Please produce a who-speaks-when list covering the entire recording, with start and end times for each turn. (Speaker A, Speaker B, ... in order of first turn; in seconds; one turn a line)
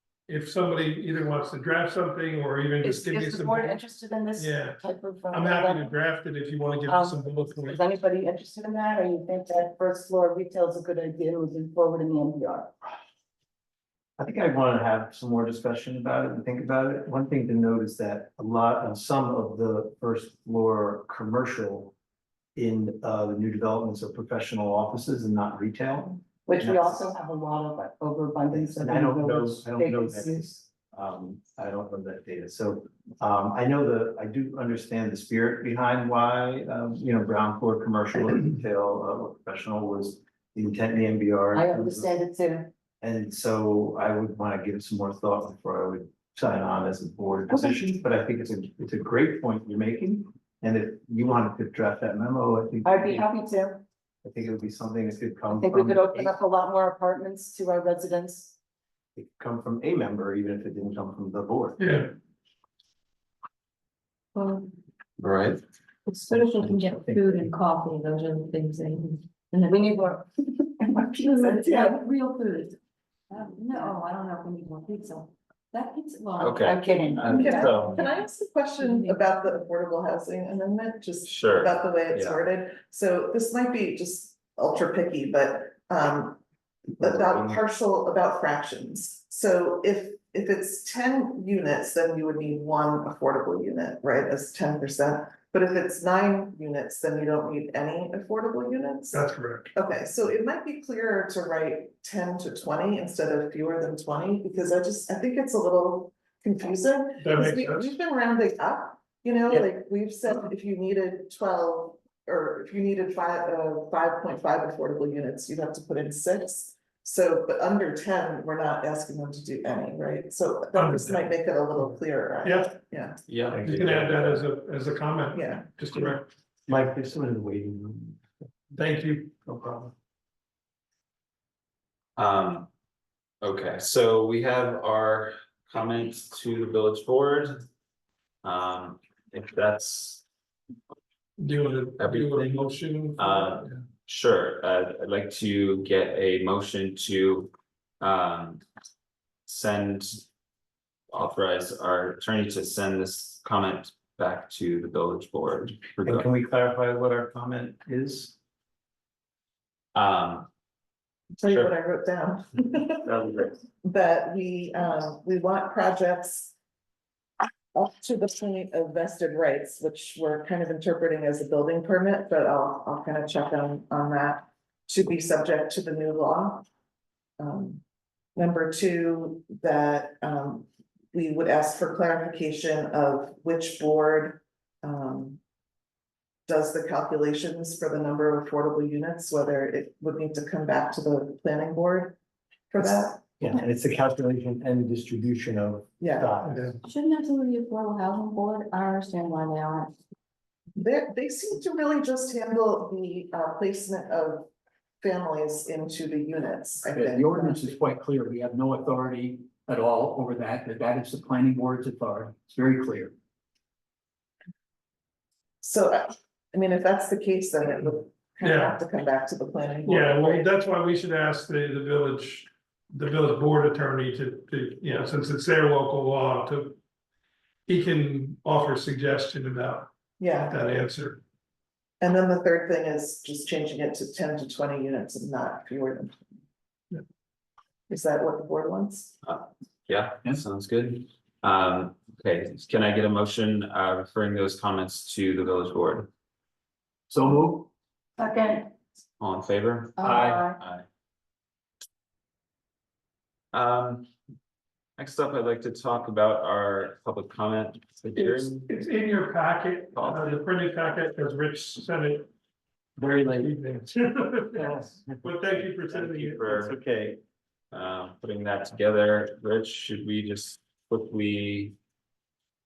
Speaker A: 0.3-3.8
Speaker B: 2.8-6.0
Speaker A: 4.4-7.8
Speaker B: 6.9-12.7
Speaker C: 14.2-21.9
Speaker C: 22.6-27.0
Speaker B: 26.5-30.5
Speaker C: 28.5-42.1
Speaker B: 41.5-42.7
Speaker C: 43.0-53.3
Speaker B: 52.9-53.8
Speaker C: 54.2-56.4
Speaker B: 55.5-58.6
Speaker C: 59.2-61.8
Speaker A: 61.8-62.1
Speaker D: 64.3-64.7
Speaker E: 65.2-65.6
Speaker D: 66.1-69.8
Speaker C: 66.3-67.5
Speaker B: 69.5-72.4
Speaker D: 71.2-72.7
Speaker F: 71.4-71.9
Speaker B: 73.3-77.8
Speaker D: 73.7-75.1
Speaker D: 75.8-76.5
Speaker E: 76.4-78.0
Speaker D: 77.2-78.1
Speaker F: 77.3-86.4
Speaker D: 78.8-79.2
Speaker E: 81.2-82.5
Speaker F: 87.0-99.2
Speaker E: 87.1-87.6
Speaker A: 99.1-99.7
Speaker F: 99.7-123.2
Speaker A: 107.2-108.0
Speaker A: 120.7-122.8
Speaker E: 123.3-123.8
Speaker C: 123.5-124.4
Speaker A: 123.6-126.3
Speaker F: 125.3-125.7
Speaker C: 126.7-128.2
Speaker A: 128.8-129.6
Speaker C: 129.6-129.9
Speaker E: 132.2-132.7
Speaker E: 133.4-137.7
Speaker E: 138.4-140.2
Speaker A: 141.4-143.8
Speaker E: 142.0-142.6
Speaker E: 143.2-148.6
Speaker E: 149.5-150.2
Speaker E: 151.1-156.3
Speaker C: 156.0-158.3
Speaker E: 159.9-160.5
Speaker F: 161.3-163.2
Speaker E: 161.5-161.8
Speaker E: 163.1-163.5
Speaker F: 163.8-166.5
Speaker F: 167.7-176.7
Speaker F: 177.4-177.8
Speaker F: 178.4-185.4
Speaker F: 186.5-192.2
Speaker F: 192.7-193.2
Speaker C: 193.2-196.7
Speaker F: 196.0-196.3
Speaker A: 196.4-196.8
Speaker D: 196.8-199.9
Speaker F: 200.8-204.5
Speaker F: 205.0-207.8
Speaker G: 206.9-213.1
Speaker F: 215.6-220.5
Speaker A: 218.4-218.8
Speaker A: 219.8-226.8
Speaker A: 227.7-229.9
Speaker F: 230.2-230.6
Speaker A: 230.5-231.2
Speaker F: 232.0-236.2
Speaker F: 237.9-239.2
Speaker E: 239.2-246.1
Speaker C: 247.1-247.7
Speaker B: 248.2-248.6
Speaker E: 249.2-250.8
Speaker B: 250.0-250.4
Speaker D: 250.0-250.5
Speaker G: 250.0-250.4
Speaker C: 250.1-250.3
Speaker E: 253.5-254.1
Speaker E: 255.0-258.7
Speaker A: 258.1-262.3
Speaker E: 259.9-260.4
Speaker C: 263.0-263.6
Speaker A: 263.4-266.5
Speaker C: 264.6-265.2
Speaker E: 265.9-266.8
Speaker C: 266.4-267.2
Speaker E: 267.7-271.8